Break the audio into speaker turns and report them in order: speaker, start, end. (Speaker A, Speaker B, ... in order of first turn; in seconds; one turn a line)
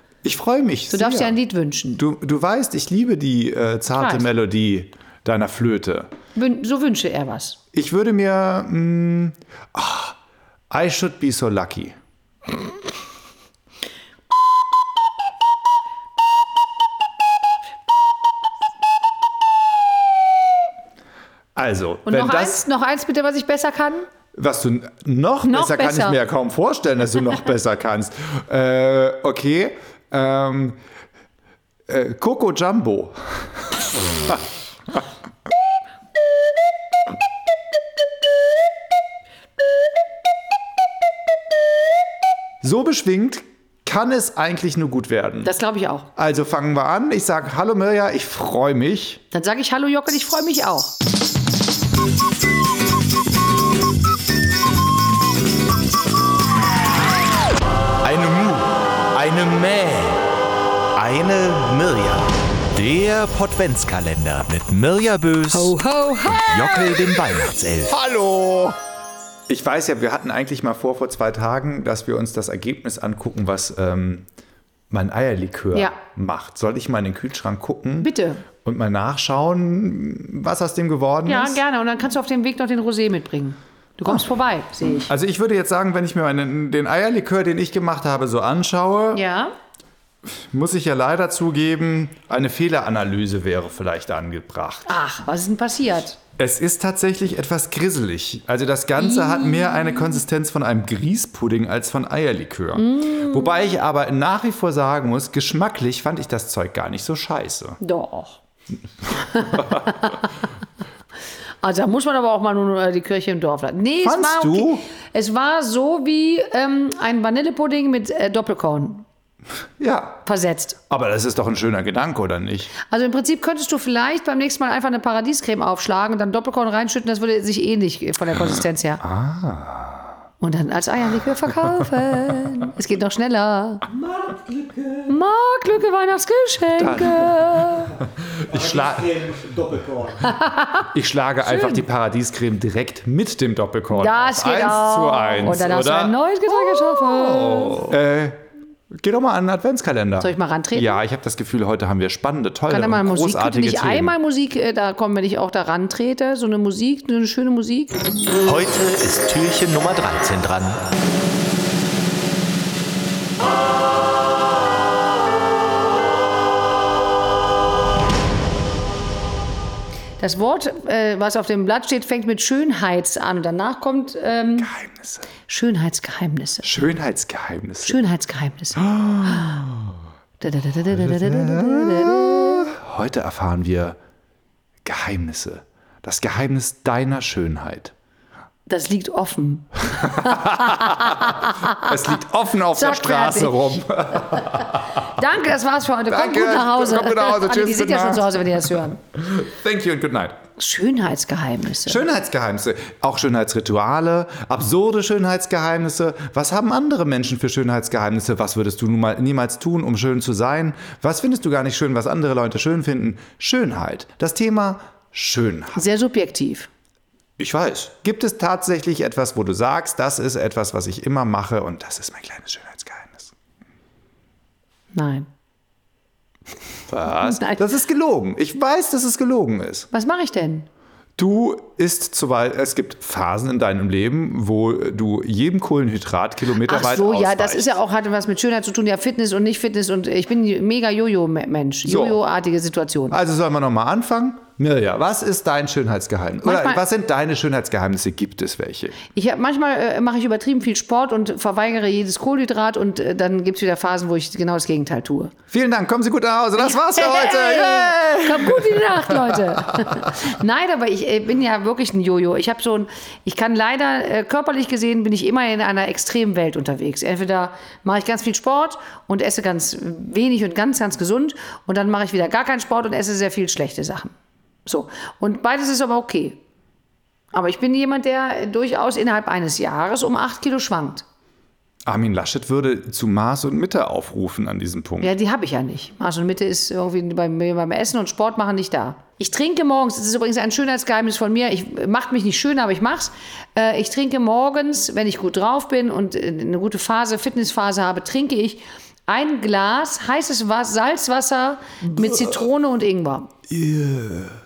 Speaker A: 0.2-1.3
Speaker B: 0.9-2.0
Speaker A: 2.0-6.1
Speaker B: 3.9-4.3
Speaker B: 6.3-7.6
Speaker A: 7.7-10.2
Speaker A: 10.7-11.9
Speaker A: 21.6-22.6
Speaker B: 22.1-24.1
Speaker A: 24.3-30.8
Speaker B: 25.4-26.2
Speaker A: 31.9-33.2
Speaker A: 42.6-45.5
Speaker B: 45.4-46.1
Speaker A: 46.1-49.2
Speaker B: 49.3-50.9
Speaker A: 58.0-60.2
Speaker C: 61.0-62.1
Speaker A: 61.0-62.2
Speaker C: 62.8-65.8
Speaker A: 63.8-65.1
Speaker B: 65.5-67.0
Speaker C: 66.3-67.9
Speaker A: 67.5-68.8
Speaker A: 69.5-74.2
Speaker A: 74.9-78.1
Speaker B: 78.0-78.4
Speaker A: 78.6-81.6
Speaker B: 81.2-85.1
Speaker A: 85.1-89.2
Speaker B: 89.1-89.5
Speaker A: 90.3-94.9
Speaker B: 94.9-96.2
Speaker A: 96.4-107.8
Speaker B: 99.0-100.1
Speaker B: 102.8-103.8
Speaker B: 107.8-108.4
Speaker B: 109.1-110.3
Speaker B: 111.6-119.0
Speaker A: 114.0-114.8
Speaker A: 119.8-120.2
Speaker B: 120.2-120.8
Speaker A: 120.9-122.7
Speaker B: 122.8-129.0
Speaker A: 129.0-130.1
Speaker B: 130.4-133.9
Speaker B: 135.0-138.0
Speaker A: 136.8-139.8
Speaker B: 140.2-140.9
Speaker A: 140.8-148.4
Speaker B: 141.4-141.8
Speaker B: 143.9-147.9
Speaker A: 149.0-154.1
Speaker B: 150.2-151.0
Speaker B: 152.7-157.9
Speaker C: 158.4-160.8
Speaker B: 170.2-174.7
Speaker A: 174.6-175.3
Speaker B: 175.4-176.7
Speaker A: 176.6-178.0
Speaker B: 177.8-179.6
Speaker A: 178.9-179.8
Speaker B: 180.4-182.7
Speaker A: 181.0-184.0
Speaker A: 184.8-187.9
Speaker B: 188.7-191.9
Speaker A: 190.0-195.0
Speaker B: 192.7-193.8
Speaker B: 194.3-199.0
Speaker A: 196.1-200.4
Speaker B: 200.6-202.1
Speaker A: 201.8-215.8
Speaker B: 215.8-216.7
Speaker A: 217.4-223.3
Speaker B: 224.9-225.3
Speaker A: 226.9-229.9
Speaker B: 227.1-227.6
Speaker B: 229.9-230.7
Speaker A: 231.2-237.7
Speaker B: 236.6-243.2
Speaker A: 241.8-242.2
Speaker A: 243.1-249.0
Speaker B: 246.4-246.8
Speaker B: 249.1-255.3
Speaker A: 255.5-259.4
Speaker B: 256.6-274.1
Speaker B: 274.6-276.4
Speaker B: 277.3-281.0
Speaker A: 281.9-285.1
Speaker B: 285.0-303.3
Speaker A: 303.5-304.4